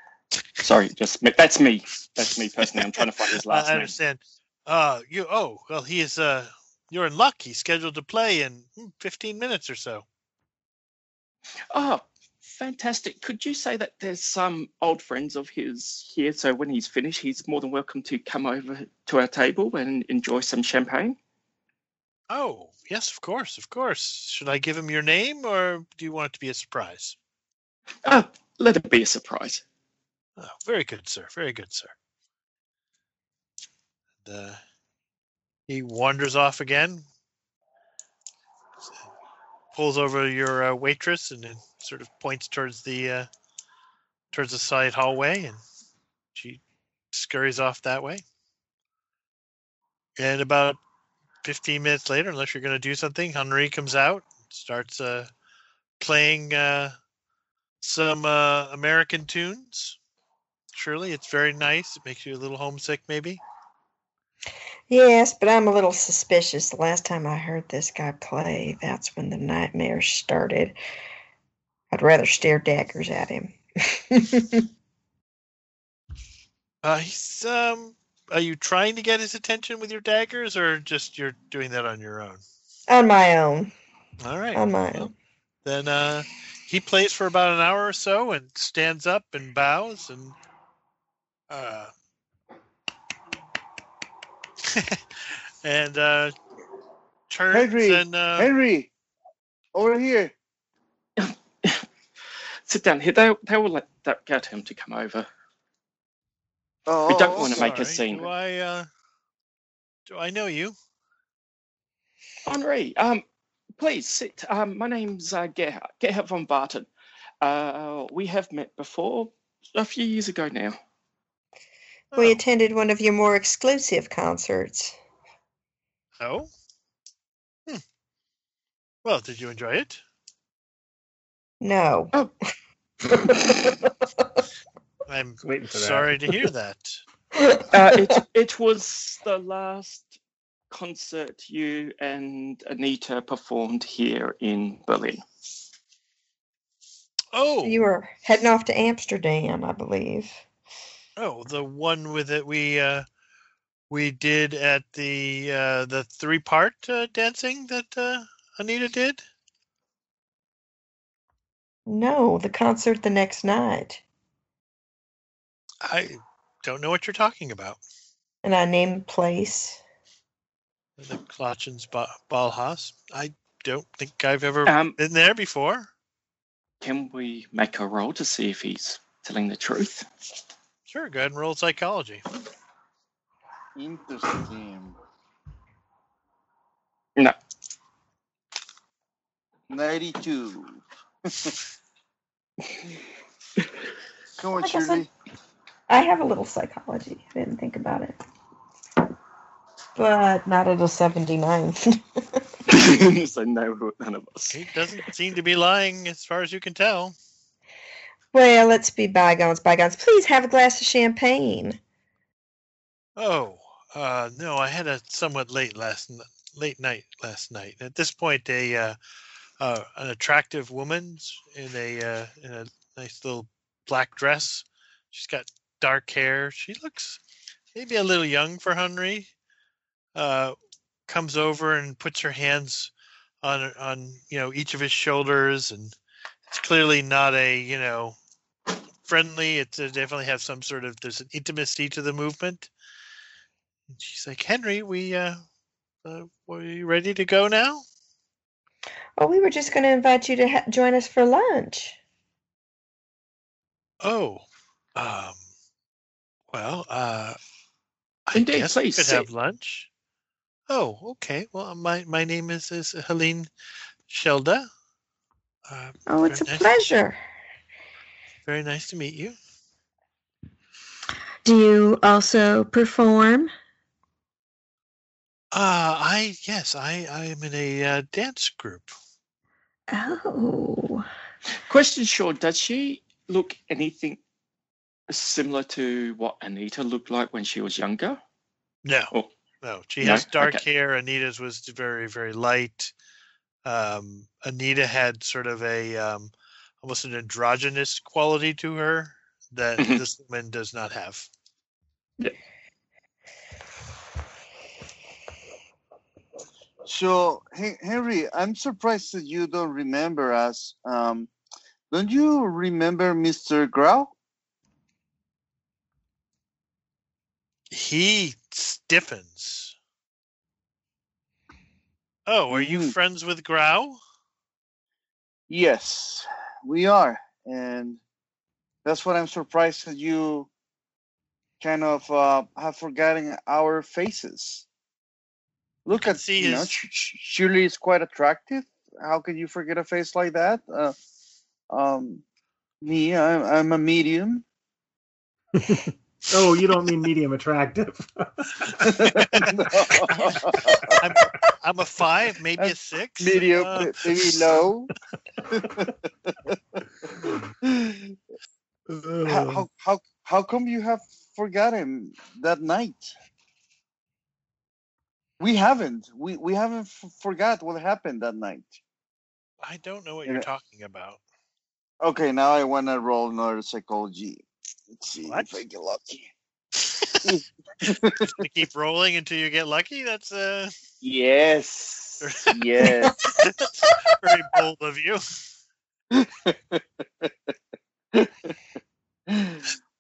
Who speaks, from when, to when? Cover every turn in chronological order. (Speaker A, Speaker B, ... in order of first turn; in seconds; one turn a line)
Speaker A: 0.6-4.0
Speaker B: 3.5-10.1
Speaker A: 11.7-21.2
Speaker B: 22.3-27.2
Speaker A: 28.1-29.6
Speaker B: 30.4-31.9
Speaker B: 34.2-34.6
Speaker B: 35.7-37.0
Speaker B: 39.7-43.3
Speaker B: 44.3-45.6
Speaker B: 47.1-48.2
Speaker B: 50.2-50.8
Speaker B: 51.4-55.3
Speaker B: 56.0-57.0
Speaker B: 57.8-60.0
Speaker B: 60.7-63.4
Speaker C: 64.9-70.8
Speaker C: 71.9-74.7
Speaker B: 76.8-82.4
Speaker C: 82.9-83.7
Speaker B: 84.2-85.1
Speaker C: 84.5-85.1
Speaker B: 85.7-90.3
Speaker B: 91.5-91.9
Speaker B: 94.6-96.3
Speaker B: 97.3-98.5
Speaker D: 97.5-98.9
Speaker D: 99.8-100.3
Speaker A: 101.2-101.8
Speaker A: 102.7-105.3
Speaker D: 106.9-107.7
Speaker A: 107.1-108.3
Speaker B: 107.5-108.9
Speaker B: 110.1-110.8
Speaker A: 112.5-113.2
Speaker A: 113.8-116.9
Speaker A: 117.4-120.8
Speaker C: 122.1-125.0
Speaker B: 126.2-126.5
Speaker B: 129.1-130.0
Speaker C: 131.6-132.1
Speaker B: 135.1-137.0
Speaker E: 135.4-136.4
Speaker A: 137.7-140.2
Speaker A: 140.7-145.2
Speaker B: 147.3-147.8
Speaker C: 147.6-150.4
Speaker B: 151.2-153.1
Speaker B: 153.9-159.2
Speaker C: 161.9-164.0
Speaker B: 165.8-167.8
Speaker C: 168.4-169.8
Speaker B: 171.0-175.9
Speaker A: 174.7-175.0
Speaker A: 176.8-180.1
Speaker B: 180.9-182.2
Speaker D: 183.8-185.0
Speaker D: 189.7-191.5
Speaker D: 194.4-195.1
Speaker C: 194.6-195.1
Speaker C: 195.9-198.2
Speaker C: 200.0-202.0
Speaker A: 202.7-204.6
Speaker B: 204.5-207.2
Speaker C: 208.3-211.8
Speaker B: 213.2-219.0
Speaker B: 219.6-227.2
Speaker B: 227.8-229.3
Speaker B: 230.2-230.6
Speaker B: 231.1-232.9
Speaker B: 233.4-235.9
Speaker B: 236.5-238.2
Speaker B: 239.1-242.7
Speaker B: 243.9-245.4
Speaker B: 246.1-247.8
Speaker C: 249.2-252.0
Speaker B: 254.0-254.4
Speaker B: 255.0-255.4
Speaker B: 256.5-257.4
Speaker B: 258.3-259.9
Speaker A: 258.3-259.3
Speaker B: 260.7-263.5
Speaker B: 264.1-264.7
Speaker B: 265.7-266.7
Speaker C: 266.1-267.2
Speaker B: 268.5-269.4
Speaker C: 271.4-273.5
Speaker B: 275.5-278.9
Speaker C: 279.9-281.1
Speaker A: 281.7-284.2
Speaker A: 285.1-288.2
Speaker B: 288.8-289.1
Speaker B: 289.6-292.9
Speaker A: 290.0-290.6
Speaker B: 293.6-296.3
Speaker B: 296.8-301.3
Speaker A: 299.8-300.1
Speaker D: 306.9-311.3
Speaker D: 311.9-314.1
Speaker B: 317.7-319.8
Speaker B: 322.3-324.0
Speaker D: 322.5-322.9
Speaker D: 325.5-328.0
Speaker D: 328.9-330.5
Speaker D: 331.6-334.7
Speaker D: 335.9-340.9
Speaker B: 335.9-336.8
Speaker D: 341.7-342.2
Speaker D: 342.8-344.4
Speaker E: 345.6-348.9
Speaker D: 348.8-351.0
Speaker B: 349.0-349.5
Speaker B: 350.1-354.5
Speaker D: 352.6-354.9
Speaker D: 355.5-358.2
Speaker E: 358.9-359.7
Speaker D: 359.3-363.1
Speaker D: 365.4-368.7
Speaker B: 369.6-371.2
Speaker D: 372.0-376.3
Speaker B: 376.8-377.4
Speaker D: 377.2-378.4
Speaker B: 378.3-380.7
Speaker D: 381.0-383.2
Speaker B: 382.2-385.2
Speaker C: 382.9-384.2
Speaker D: 386.1-387.3
Speaker D: 388.1-388.6
Speaker D: 389.3-389.6